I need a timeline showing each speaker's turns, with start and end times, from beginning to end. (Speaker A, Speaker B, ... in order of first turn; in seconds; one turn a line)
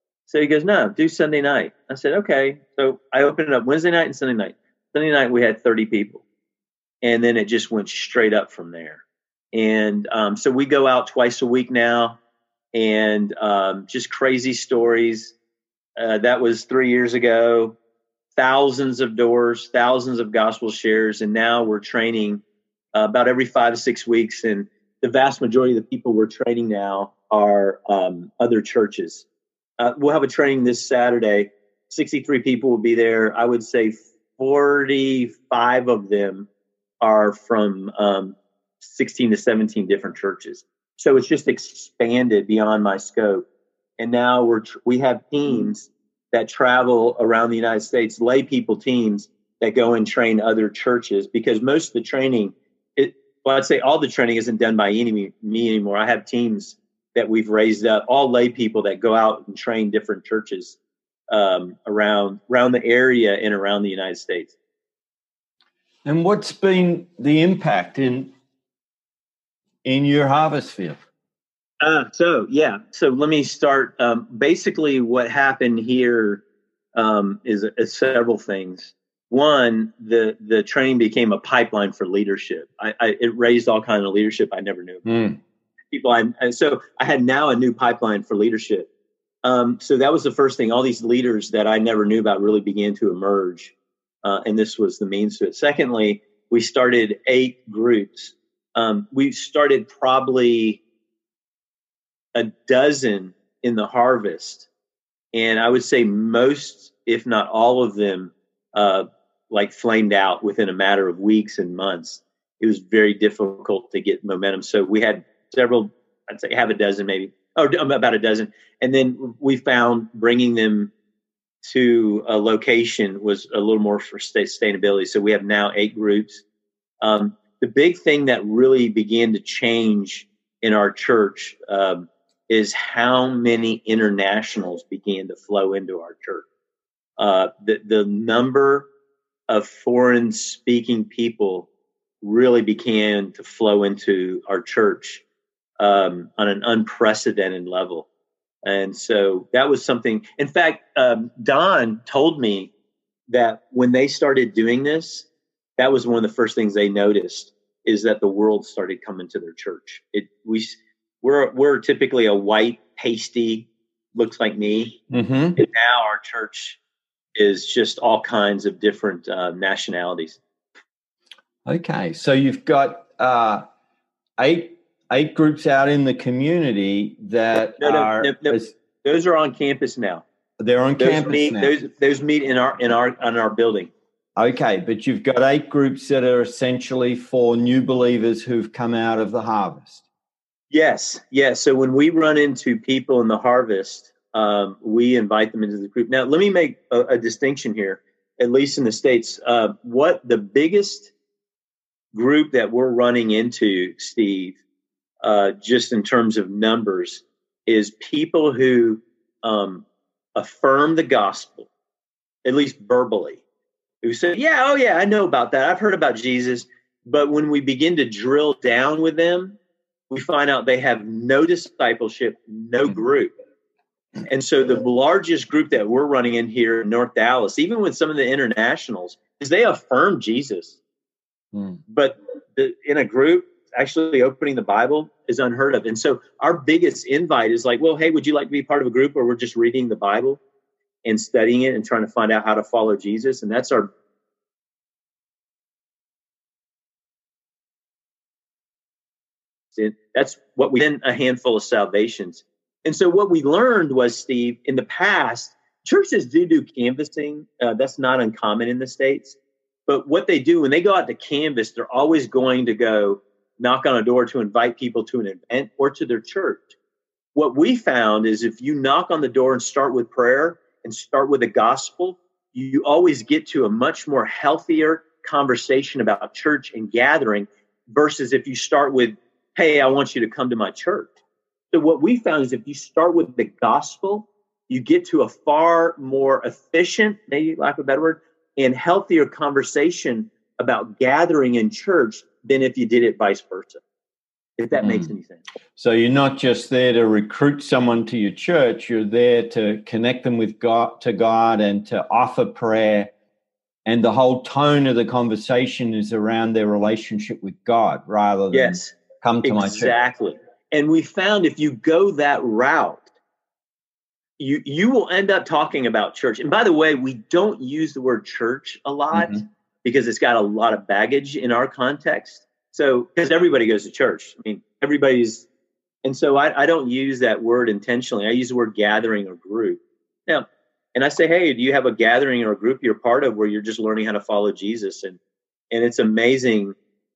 Speaker A: 0.3-6.2
Speaker A: 7.0-9.0
Speaker A: 9.5-12.2
Speaker A: 12.7-15.4
Speaker A: 16.0-17.8
Speaker A: 18.4-22.4
Speaker A: 22.9-29.3
Speaker A: 29.8-36.5
Speaker A: 37.0-43.5
Speaker A: 44.0-60.8
Speaker A: 61.3-64.6
Speaker B: 66.0-68.3
Speaker B: 69.8-71.0
Speaker A: 71.8-76.4
Speaker A: 77.0-85.0
Speaker B: 85.0-85.4
Speaker A: 85.9-88.9
Speaker A: 89.4-100.8
Speaker A: 102.3-104.7
Speaker A: 105.3-120.9
Speaker A: 121.6-126.4
Speaker A: 127.0-136.4
Speaker A: 137.2-138.9
Speaker A: 139.5-141.7
Speaker A: 142.2-145.2
Speaker A: 145.8-148.1
Speaker A: 148.6-152.7
Speaker A: 153.3-165.0
Speaker B: 165.1-165.6
Speaker A: 165.6-166.8
Speaker A: 167.4-170.4
Speaker B: 171.7-173.7
Speaker B: 174.4-178.7
Speaker A: 177.8-180.2
Speaker B: 180.6-181.8
Speaker A: 181.0-183.9
Speaker B: 184.4-190.0
Speaker A: 190.7-201.1
Speaker A: 202.1-204.6
Speaker A: 205.2-211.7
Speaker A: 212.4-213.4
Speaker A: 214.0-219.6
Speaker A: 220.1-223.3
Speaker A: 224.3-230.8
Speaker B: 231.5-231.8
Speaker A: 231.9-240.4
Speaker A: 241.1-243.9
Speaker A: 249.7-266.8
Speaker A: 267.4-281.1
Speaker A: 281.7-293.8
Speaker A: 294.6-295.4
Speaker B: 294.8-295.1
Speaker B: 295.8-303.1
Speaker B: 303.9-309.9
Speaker A: 308.5-313.1
Speaker A: 314.4-325.5
Speaker B: 319.1-319.4
Speaker A: 326.0-335.2
Speaker A: 335.7-336.8